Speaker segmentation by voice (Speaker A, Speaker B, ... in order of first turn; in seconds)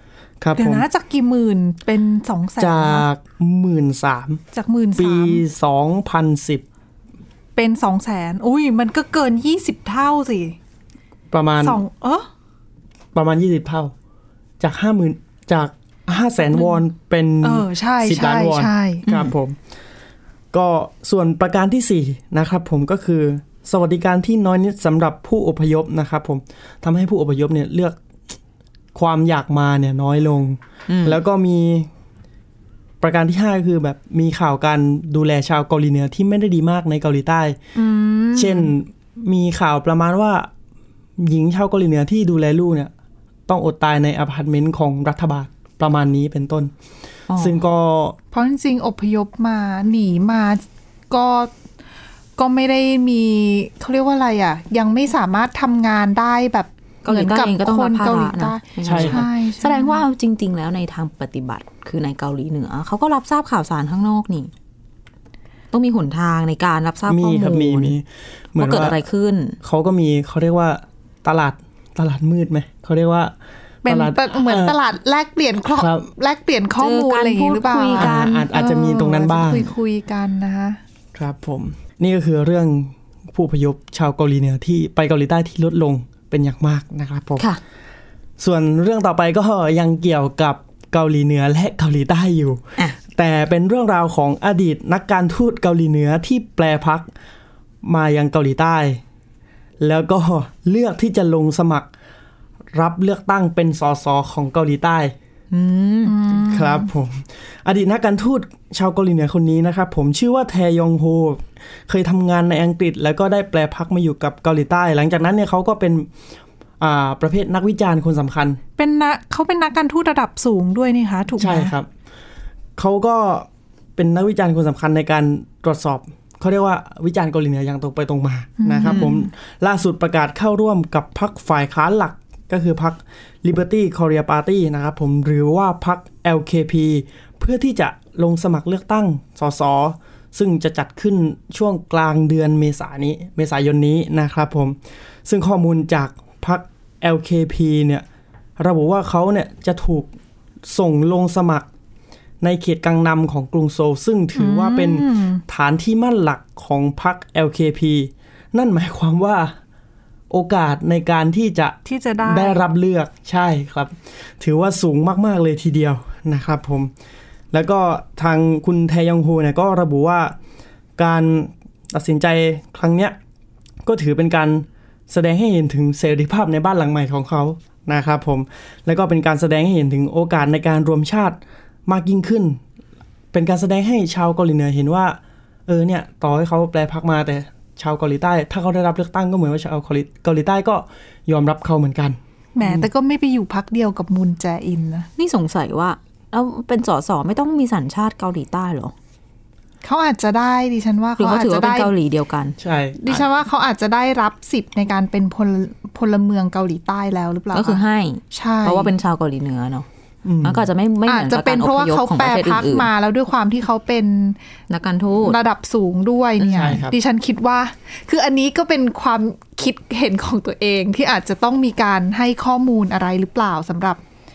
Speaker A: 0.4-0.9, 2.6-4.4, 5.0-6.6, 11.3-11.8, 13.1-13.9, 14.6-19.6, 20.5-28.0, 28.9-31.9, 33.0-37.6, 38.4-40.5, 41.2-42.9, 43.5-46.7, 47.4-48.2, 58.8-59.2, 67.1-69.0, 69.6-74.8, 75.7-76.1, 78.0-79.7, 81.2-87.5, 88.4-92.6, 93.2-97.1, 97.8-99.0, 99.8-101.9, 102.7-105.1, 106.5-116.1, 116.8-118.6, 121.4-121.9, 122.8-148.1, 148.6-150.1, 150.7-151.7, 152.4-159.6, 160.3-166.9, 167.5-170.4, 171.0-173.2, 173.8-182.6, 183.3-192.9, 202.6-203.2, 210.2-210.7, 216.5-217.0
Speaker B: 0.6-3.0, 4.5-5.4, 7.6-10.6, 11.6-12.3, 17.4-19.1, 37.8-38.7, 48.3-51.5, 52.4-60.0, 73.8-80.8, 106.0-106.9, 118.8-121.7, 128.6-129.2, 154.4-155.4, 161.8-162.6, 192.6-195.1, 199.8-201.9, 203.0-207.8, 208.3-208.9, 211.1-214.4, 215.2-224.0
Speaker C: 19.1-19.3, 30.9-31.2, 47.3-47.6, 57.0-64.5, 65.7-67.9, 68.6-69.6, 76.8-78.5, 105.5-106.2, 128.8-129.1, 195.2-198.9, 201.2-202.6, 207.5-209.9, 210.4-212.9, 214.7-215.4, 216.4-216.8